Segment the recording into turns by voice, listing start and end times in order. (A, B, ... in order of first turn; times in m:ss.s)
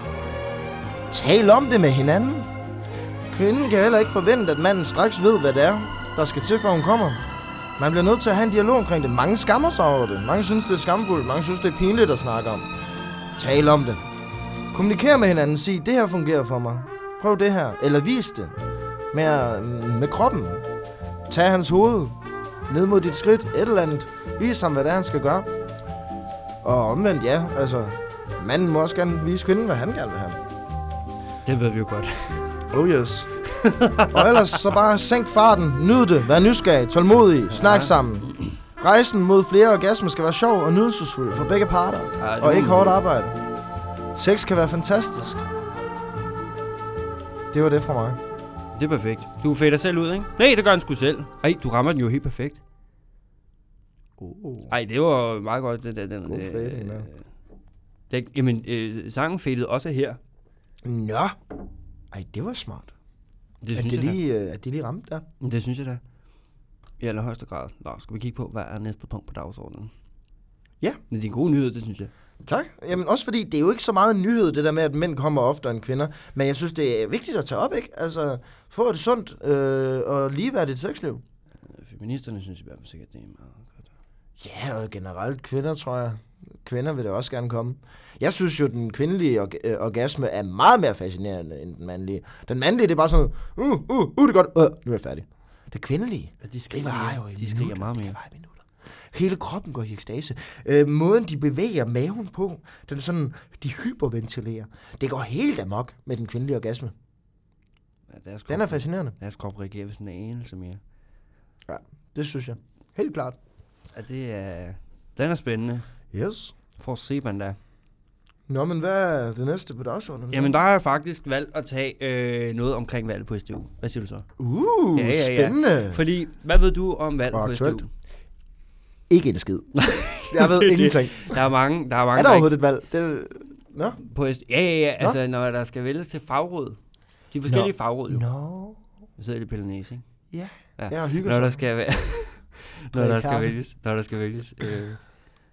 0:01.1-0:02.5 A
0:03.3-0:07.2 A
0:07.8-0:12.7 A
0:13.4-0:14.1 A
0:14.7-0:18.6 A
0:19.1-0:20.6 A
0:21.3-0:22.2 A
0:22.7-0:25.5 A
0:26.6-0:30.4 A
0:31.4-0:32.4 B
0:32.7-0:33.3 A
0:33.5-0:34.5 B
0:34.1-0:43.4 A
0:37.5-0:38.5 B
0:42.2-0:43.0 B
0:44.1-0:45.4 A
0:47.5-0:48.2 A
0:48.7-0:52.6 B
0:54.2-0:54.7 A
0:54.7-0:57.2 B
0:56.2-0:57.1 A
0:58.1-1:00.2 B
1:00.8-1:01.4 A
1:02.1-1:02.9 A
1:03.6-1:04.2 B
1:03.7-1:05.2 A
1:05.4-1:06.0 B
1:07.0-1:09.9 B
1:11.1-1:12.1 B
1:12.4-1:21.2 A
1:21.7-1:23.9 B
1:24.4-1:46.9 A
1:36.4-1:38.2 B
1:48.1-1:50.8 B
1:48.5-1:49.1 A
1:51.7-1:53.4 A
1:53.9-1:55.9 B
1:56.1-1:56.5 A
1:56.8-1:57.6 B
1:58.5-2:00.6 A
2:00.3-2:04.3 B
2:04.4-2:06.0 A
2:04.9-2:07.9 B
2:07.3-2:07.8 A
2:09.1-2:11.4 A
2:09.8-2:12.5 B
2:12.1-2:14.0 A
2:14.0-2:16.8 B
2:17.3-2:18.2 B
2:17.5-2:18.8 A
2:19.2-2:20.0 B
2:20.3-2:21.6 A
2:20.8-2:25.0 B
2:22.9-2:23.6 A